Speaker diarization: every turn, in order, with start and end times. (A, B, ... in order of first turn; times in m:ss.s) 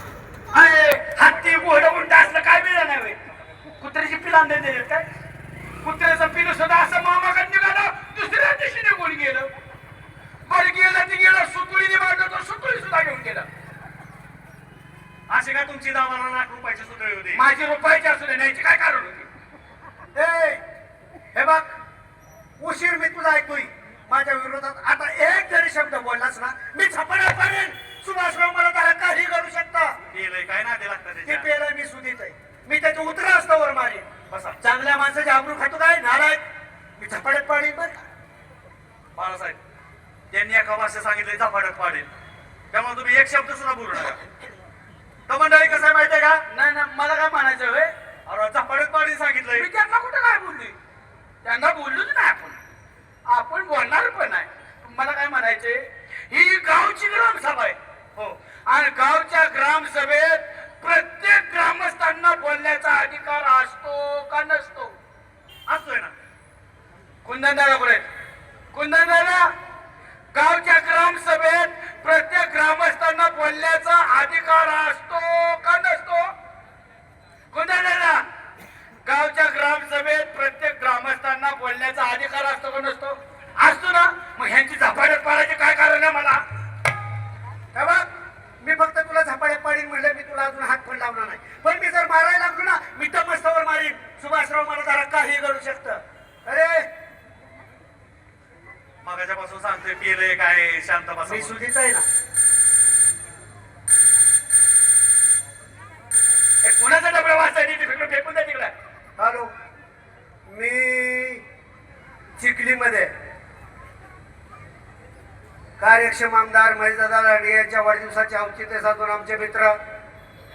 0:00.5-0:03.2 A
0:03.8-0:05.0 A
0:05.8-0:09.5 A
0:10.4-0:13.4 A
0:15.3-0:17.4 B
0:17.3-0:19.3 A
0:20.1-0:20.6 C
0:21.3-0:21.7 C
0:22.6-0:30.0 C
0:30.1-0:31.5 B
0:31.2-0:36.4 C
0:34.3-0:34.6 B
0:37.0-0:38.0 C
0:39.1-0:39.6 B
0:40.3-0:42.1 B
0:42.7-0:44.2 B
0:45.3-0:46.4 B
0:46.5-0:47.9 A
0:48.2-0:49.7 B
0:49.5-0:50.7 A
0:51.4-0:52.6 A
0:53.3-0:57.8 A
0:58.6-1:04.9 A
1:05.7-1:06.1 B
1:07.2-1:08.0 A
1:08.7-1:09.5 A
1:10.3-1:16.3 A
1:17.5-1:18.2 A
1:19.0-1:26.4 A
1:27.7-1:28.1 C
1:28.6-1:36.8 C
1:39.0-1:41.5 B
1:41.2-1:42.0 C
1:46.6-1:48.7 A
1:49.2-1:49.5 C
1:50.5-1:51.4 C
1:52.4-1:53.1 C
1:55.8-1:59.8 C